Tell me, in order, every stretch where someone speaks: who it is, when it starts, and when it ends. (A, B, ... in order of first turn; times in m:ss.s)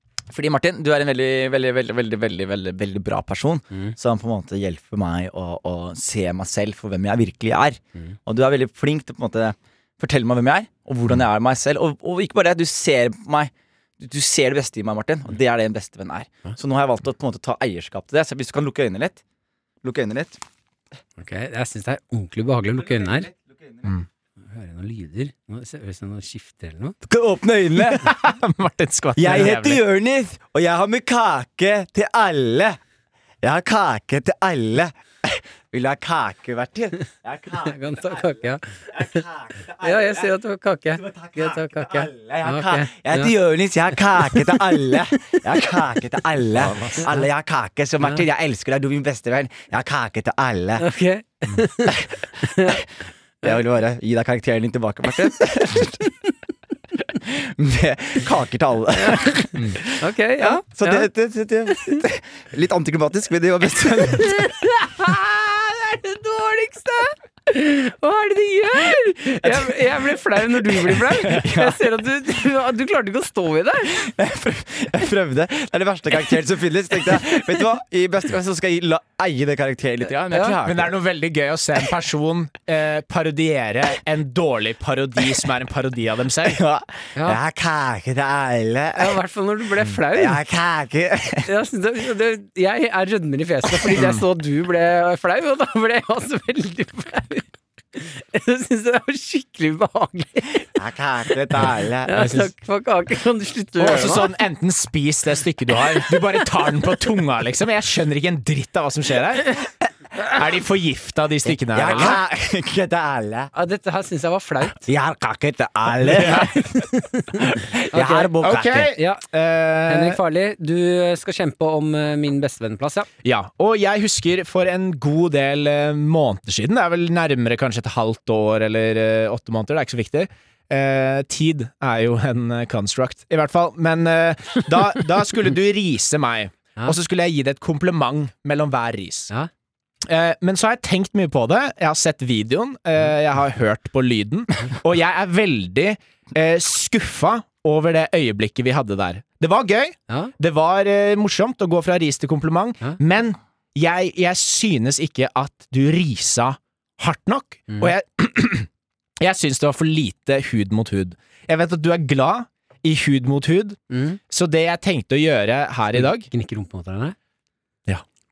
0:00.3-0:19.2 A
0:19.8-0:20.4 A
0:21.2-0:23.3 B
0:22.8-0:23.9 A
0:24.5-0:27.0 B
0:27.0-0:28.1 A
0:27.8-0:29.8 C
0:29.2-0:32.8 A
0:33.4-0:40.3 A
0:37.6-0:39.2 B
0:39.8-0:43.3 B
0:40.9-0:50.8 A
0:44.2-0:45.4 B
0:46.6-0:47.0 C
0:50.8-0:52.8 B
0:53.4-0:56.1 A
0:57.2-1:04.4 A
0:59.0-1:01.1 B
1:01.7-1:02.0 B
1:04.1-1:14.0 B
1:11.0-1:11.8 A
1:13.9-1:20.9 A
1:20.3-1:20.6 B
1:20.6-1:26.6 C
1:26.4-1:29.2 A
1:28.9-1:30.4 B
1:30.1-1:31.5 A
1:31.4-1:40.7 B
1:33.9-1:34.2 C
1:40.8-1:42.3 A
1:42.0-1:44.3 B
1:42.1-1:42.5 C
1:43.8-1:49.6 C
1:50.3-1:52.2 C
1:51.7-1:53.5 A
1:53.5-1:54.9 B
1:54.8-1:56.7 A
1:56.1-1:56.5 C
1:56.2-1:58.3 B
1:57.5-1:58.9 A
1:58.4-2:00.2 C
1:58.9-1:59.2 B
1:59.9-2:03.1 B
2:03.2-2:19.3 C
2:20.0-2:38.7 C
2:39.2-2:43.8 C
2:43.9-2:44.2 B
2:44.3-2:46.3 C
2:45.9-2:47.2 B